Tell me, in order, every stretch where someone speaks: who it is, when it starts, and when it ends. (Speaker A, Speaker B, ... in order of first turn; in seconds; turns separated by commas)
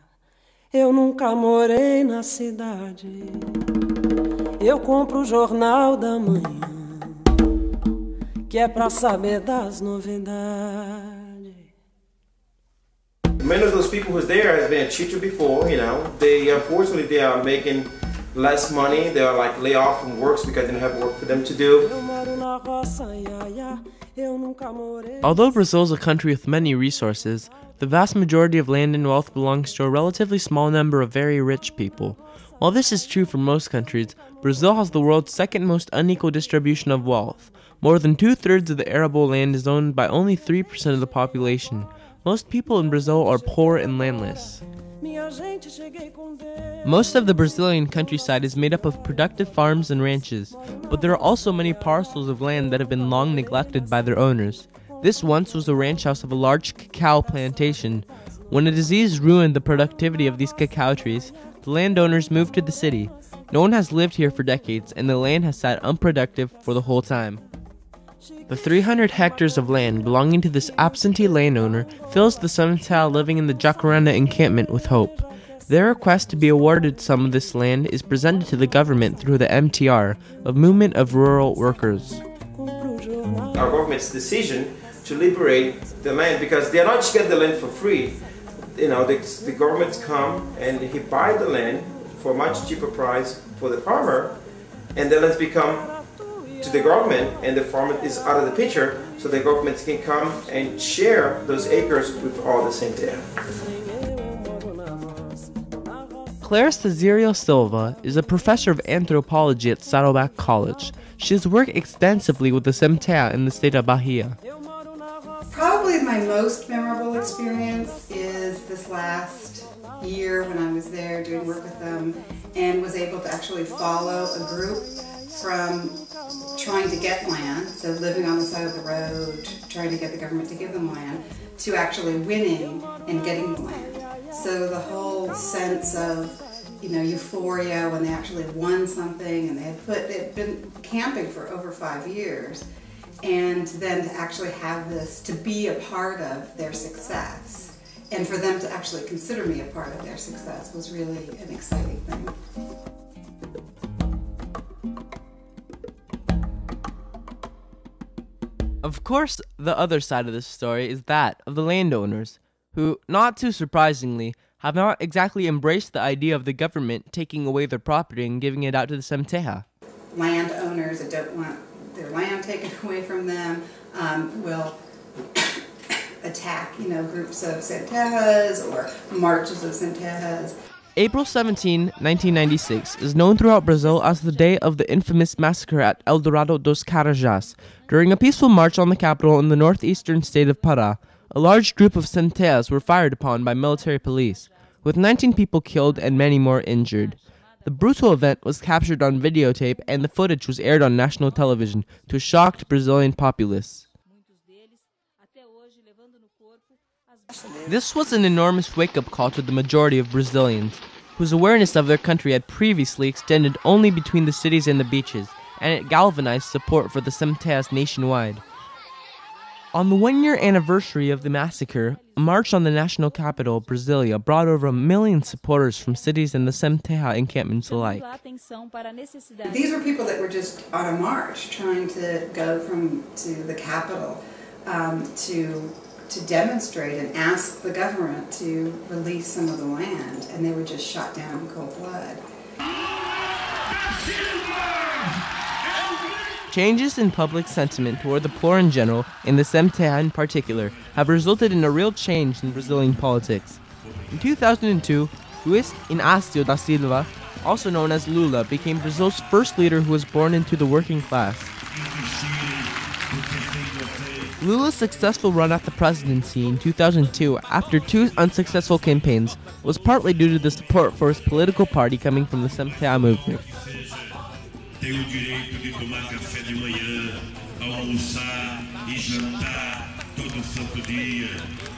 Speaker A: 0.7-3.6, Speaker A: 4.6-7.3, Speaker A: 8.5-11.6, Speaker B: 13.4-21.9, Speaker A: 22.0-25.3, Speaker C: 25.2-44.6, Speaker A: 45.0-46.3, Speaker C: 46.8-67.4, Speaker C: 68.5-82.2, Speaker A: 82.6-83.5, Speaker B: 83.5-88.2, Speaker B: 88.8-94.4, Speaker B: 95.0-95.9, Speaker B: 96.6-103.2, Speaker A: 103.7-105.5, Speaker C: 106.4-114.4, Speaker D: 115.5-126.0, Speaker D: 126.6-142.7, Speaker D: 143.2-152.3, Speaker C: 158.8-169.7, Speaker D: 170.1-174.8, Speaker D: 176.2-180.6, Speaker C: 181.0-203.9, Speaker C: 207.7-218.4, Speaker C: 219.7-228.2, Speaker D: 229.4-242.2, Speaker E: 244.0-245.1, Speaker C: 246.5-261.5, Speaker E: 261.7-264.4, Speaker C: 264.4-273.4, Speaker E: 274.8-281.5